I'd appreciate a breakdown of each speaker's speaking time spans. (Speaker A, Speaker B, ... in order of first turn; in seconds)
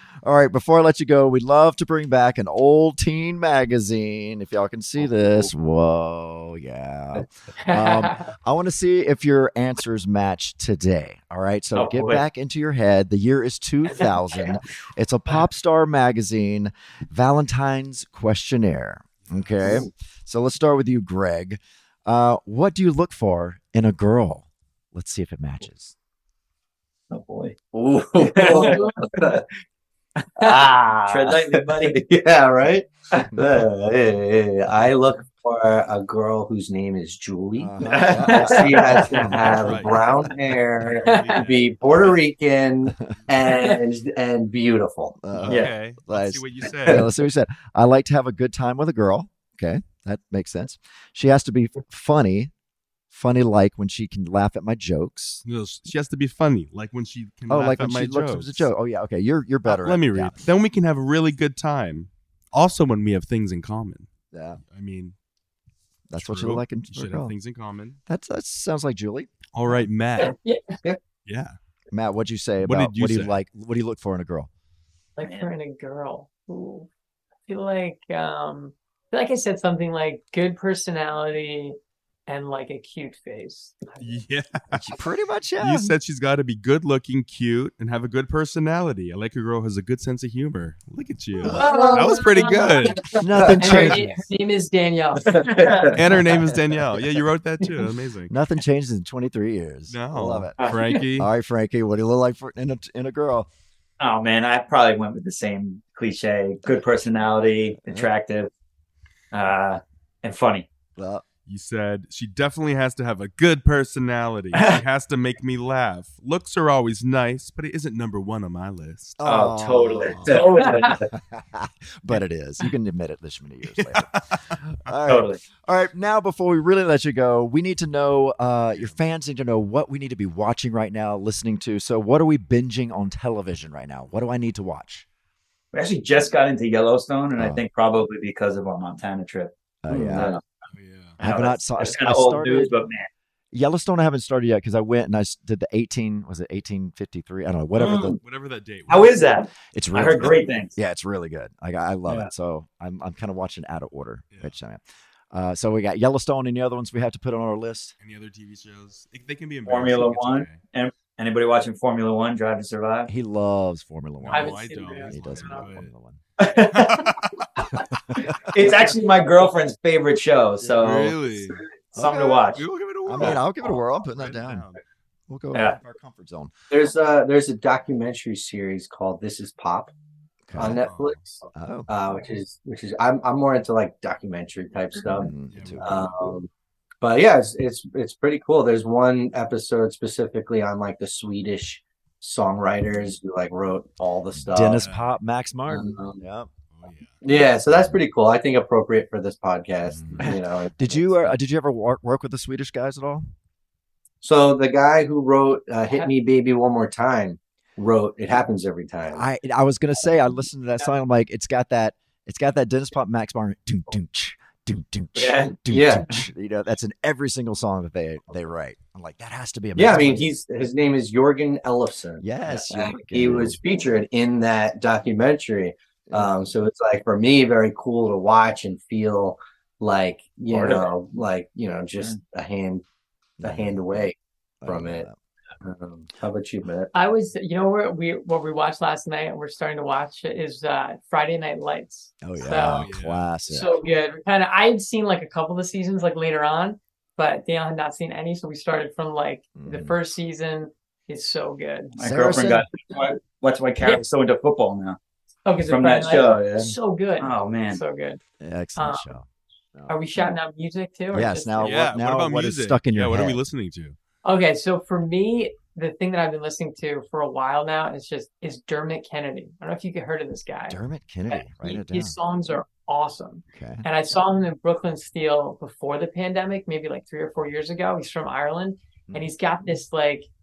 Speaker A: 0.2-25.9, 37.6-39.5, 45.2-52.5, 53.1-55.4, 57.5-60.4, 64.3-64.6, 66.1-67.3, 68.0-69.8, 71.9-74.5, 84.7-85.9, 93.2-94.1, 98.3-100.6, 101.2-103.5, 111.0-111.2, 119.2-120.5, 121.1-124.1, 124.6-135.0, 139.8-140.3, 141.2-142.7, 143.5-148.2, 149.7-157.9, 163.1-166.2, 168.2-168.6, 171.9-172.4, 173.0-174.6, 175.3-176.5, 180.5-180.8, 181.5-181.9, 185.1-186.1, 194.3-196.5, 199.9-203.3, 209.1-220.3, 222.2-223.6, 226.1-226.3, 233.4-233.8, 234.6-235.1, 242.2-243.7, 249.6-250.0, 252.0-252.6, 258.4-260.0, 261.1-263.4, 270.7-272.1, 273.5-273.9
Speaker B: 7.6-8.2, 28.4-28.9, 41.1-41.4, 43.4-43.8, 70.2-70.8, 75.2-76.9, 77.5-81.8, 82.3-84.0, 91.4-95.8, 120.6-120.9, 164.3-165.7, 236.9-242.9, 243.4-252.5, 255.4-258.2, 258.8-259.1, 259.9-261.9, 264.2-270.8, 271.3-280.3
Speaker C: 11.7-12.2, 13.9-14.5, 27.1-27.6, 28.2-28.9, 30.4-32.0, 37.8-39.4, 45.5-45.7, 75.2-75.5, 100.6-100.9, 104.0-108.5, 109.3-110.7, 119.2-121.0, 125.1-125.4, 135.7-140.4, 141.2-143.1, 147.8-148.2, 148.9-150.7, 159.7-163.1, 166.4-167.1, 168.5-171.2, 171.9-172.6, 215.1-215.6, 251.9-255.0, 255.6-256.4, 257.2-257.8
Speaker D: 19.2-19.8, 39.1-40.2, 40.8-42.1, 45.3-47.1, 55.4-58.7, 59.6-64.1, 64.6-65.2, 66.1-68.0, 69.5-70.3, 71.2-71.6, 72.6-73.3, 84.0-85.0, 85.6-93.1, 93.7-94.2, 96.0-98.3, 99.9-101.3, 111.5-119.2, 123.8-124.5, 140.7-141.2, 148.2-149.2, 154.3-154.6, 158.0-160.6, 164.2-165.9, 166.6-167.4, 170.6-171.6, 172.5-174.8, 180.6-181.4, 185.3-186.1, 194.8-195.1, 196.7-197.2, 242.8-243.4, 261.6-263.9
Speaker E: 27.7-29.4, 30.4-45.2, 91.6-92.2, 95.2-96.0, 120.3-120.7, 140.1-140.4, 176.7-179.9, 180.5-185.3, 185.8-186.5, 187.0-194.8, 195.7-196.2, 197.2-201.3, 204.2-209.3, 215.7-216.1, 219.8-232.8, 233.4-235.1, 235.6-236.9, 256.0-256.7